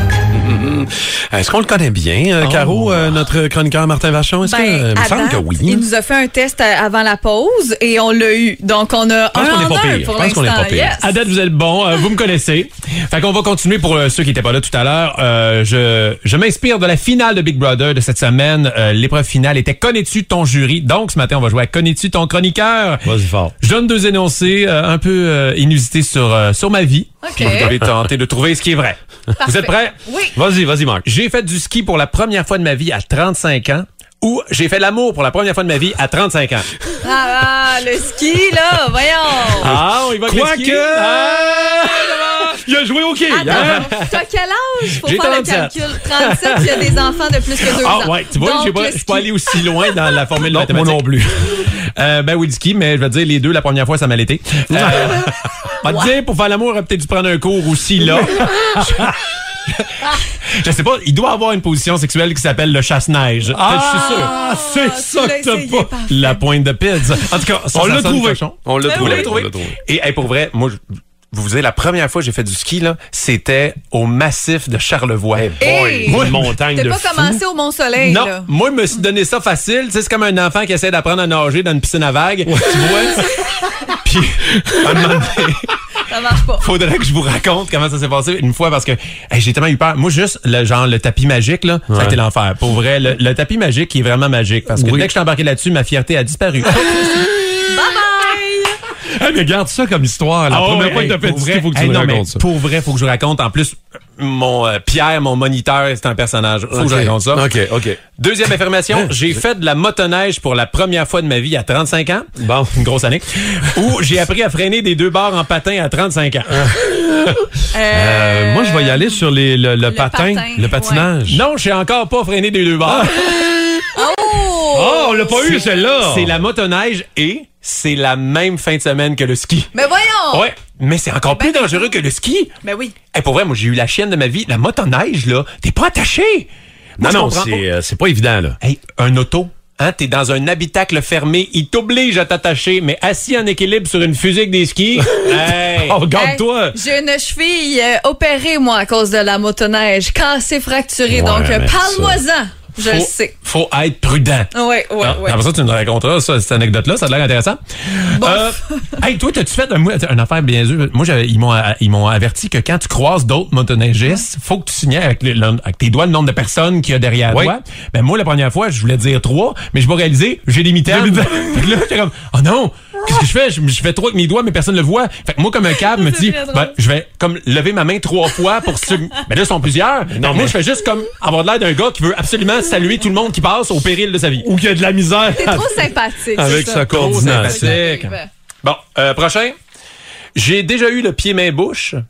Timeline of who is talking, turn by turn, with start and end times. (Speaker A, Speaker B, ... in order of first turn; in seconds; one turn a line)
Speaker A: 0.3-5.9
Speaker B: 2.4-3.0
Speaker C: 4.4-11.2
Speaker A: 9.3-10.9
Speaker B: 11.0-23.1
Speaker A: 23.0-23.5
Speaker B: 23.6-30.0
Speaker C: 27.2-27.7
Speaker C: 29.4-30.4
Speaker A: 30.4-31.0
Speaker B: 31.0-36.7
Speaker C: 37.0-39.7
Speaker B: 39.5-41.9
Speaker A: 39.6-43.9
Speaker C: 41.8-42.3
Speaker C: 43.3-49.9
Speaker B: 43.5-44.1
Speaker B: 45.0-47.0
Speaker B: 47.6-59.1
Speaker A: 50.4-51.3
Speaker A: 54.7-55.3
Speaker C: 55.8-56.1
Speaker A: 58.1-59.1
Speaker B: 59.7-64.3
Speaker A: 63.5-65.9
Speaker C: 63.9-66.4
Speaker B: 66.1-70.8
Speaker A: 67.7-69.8
Speaker C: 68.8-69.3
Speaker B: 71.3-76.5
Speaker A: 75.3-77.4
Speaker C: 75.6-78.5
Speaker B: 78.0-83.4
Speaker A: 82.5-83.2
Speaker B: 83.9-85.8
Speaker C: 86.0-86.7
Speaker B: 86.5-97.3
Speaker A: 91.9-92.2
Speaker A: 94.7-95.1
Speaker C: 97.7-98.8
Speaker A: 99.0-102.4
Speaker B: 100.5-107.5
Speaker A: 106.7-108.0
Speaker B: 108.2-116.7
Speaker A: 108.9-109.1
Speaker A: 112.4-112.8
Speaker A: 116.5-121.4
Speaker C: 117.7-119.2
Speaker C: 119.8-121.1
Speaker B: 121.3-123.4
Speaker A: 122.8-123.8
Speaker C: 123.9-125.9
Speaker A: 124.7-126.3
Speaker B: 125.3-129.7
Speaker C: 129.7-130.4
Speaker B: 130.3-132.5
Speaker C: 131.3-131.9
Speaker C: 132.6-132.9
Speaker B: 133.1-137.7
Speaker A: 137.0-138.6
Speaker B: 138.6-146.0
Speaker A: 145.0-146.8
Speaker C: 146.1-153.3
Speaker A: 151.1-152.2
Speaker B: 152.8-184.5
Speaker C: 154.5-155.4
Speaker C: 158.1-158.5
Speaker A: 167.3-167.6
Speaker A: 170.8-171.7
Speaker C: 175.8-176.7
Speaker A: 180.1-180.6
Speaker A: 184.4-187.8
Speaker C: 185.3-188.3
Speaker B: 186.4-189.6
Speaker B: 190.3-192.0